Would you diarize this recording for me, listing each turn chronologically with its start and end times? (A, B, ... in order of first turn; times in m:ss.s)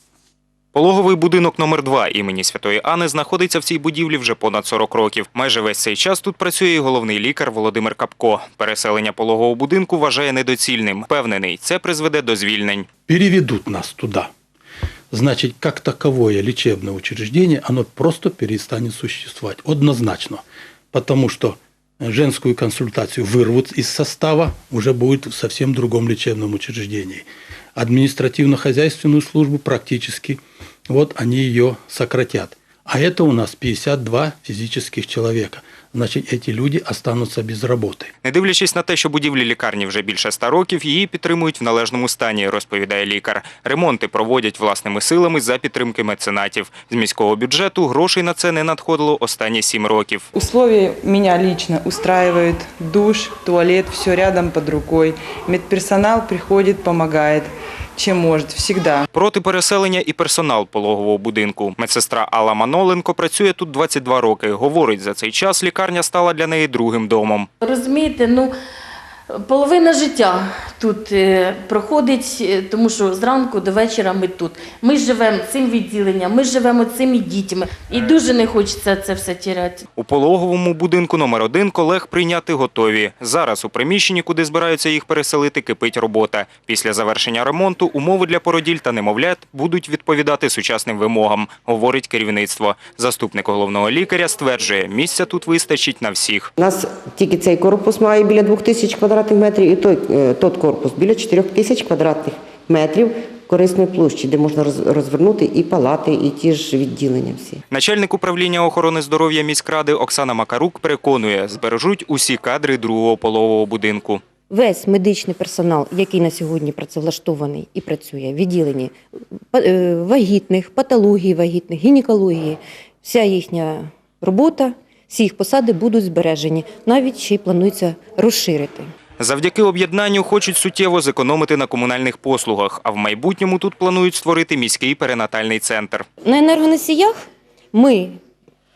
0:00.7-0:12.9 A
0:13.1-0:14.3 B
0:15.1-0:38.1 B
0:38.2-0:50.2 A
0:50.3-0:59.0 C
0:59.1-1:07.5 A
1:07.6-1:08.5 D
1:09.5-1:19.8 D
1:20.0-1:36.5 A
1:36.6-1:47.6 E
1:47.7-1:54.2 A
1:54.5-1:58.9 F
1:59.5-2:08.9 F
2:09.2-2:16.0 A
2:16.2-2:17.2 F
2:17.7-2:18.2 F